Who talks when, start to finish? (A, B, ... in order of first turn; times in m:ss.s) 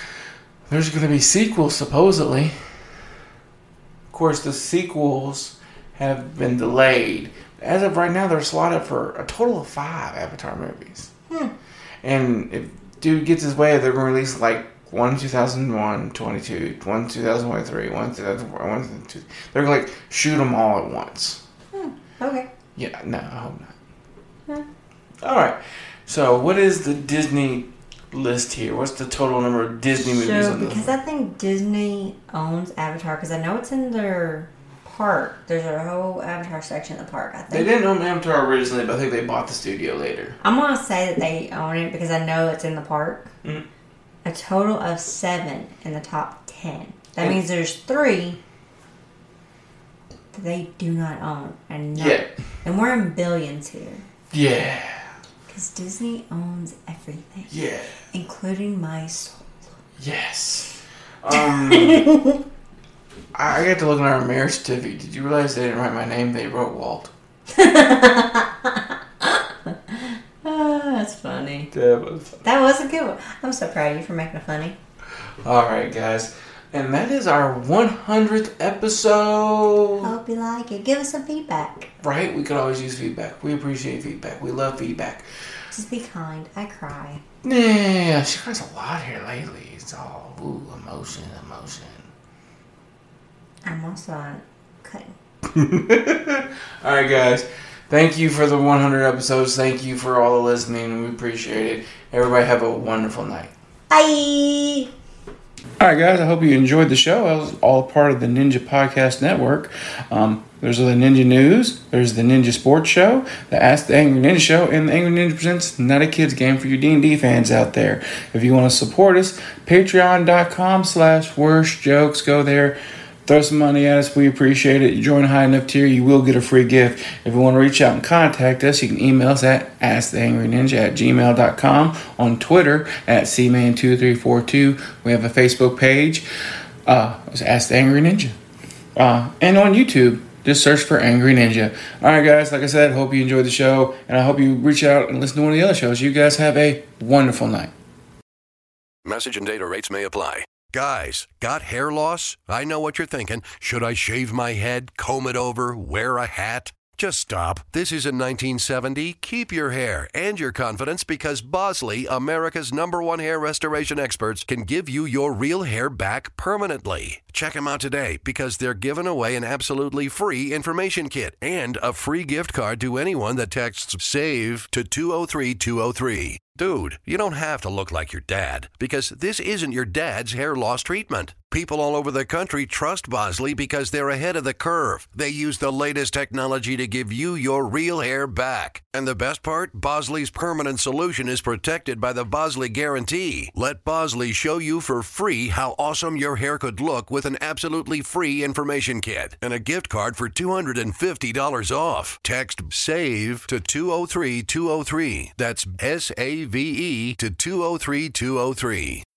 0:00.7-0:02.5 A
0:04.1-0:11.1 A
0:12.0-0:21.4 A
0:21.7-0:22.5 B
0:22.8-0:23.7 A
0:25.2-0:30.9 A
0:30.0-0:37.7 B
0:37.5-0:40.4 A
0:40.4-0:43.3 B
0:44.2-0:48.4 B
0:50.3-0:54.0 B
0:51.9-0:52.3 A
0:54.3-0:55.1 A
0:55.5-0:57.5 B
0:57.5-0:58.0 A
0:58.1-0:59.7 B
1:00.0-1:02.1 A
1:01.3-1:02.4 B
1:03.3-1:07.1 A
1:07.5-1:11.7 B
1:11.7-1:12.4 A
1:12.4-1:14.8 B
1:15.4-1:20.1 A
1:20.0-1:21.9 B
1:22.0-1:25.2 A
1:25.7-1:27.2 B
1:27.4-1:32.1 A
1:33.6-1:35.1 B
1:35.5-1:43.5 A
1:43.9-1:44.9 B
1:45.8-2:16.2 A
2:16.8-2:18.3 A
2:19.0-2:27.7 A
2:29.0-3:29.0 C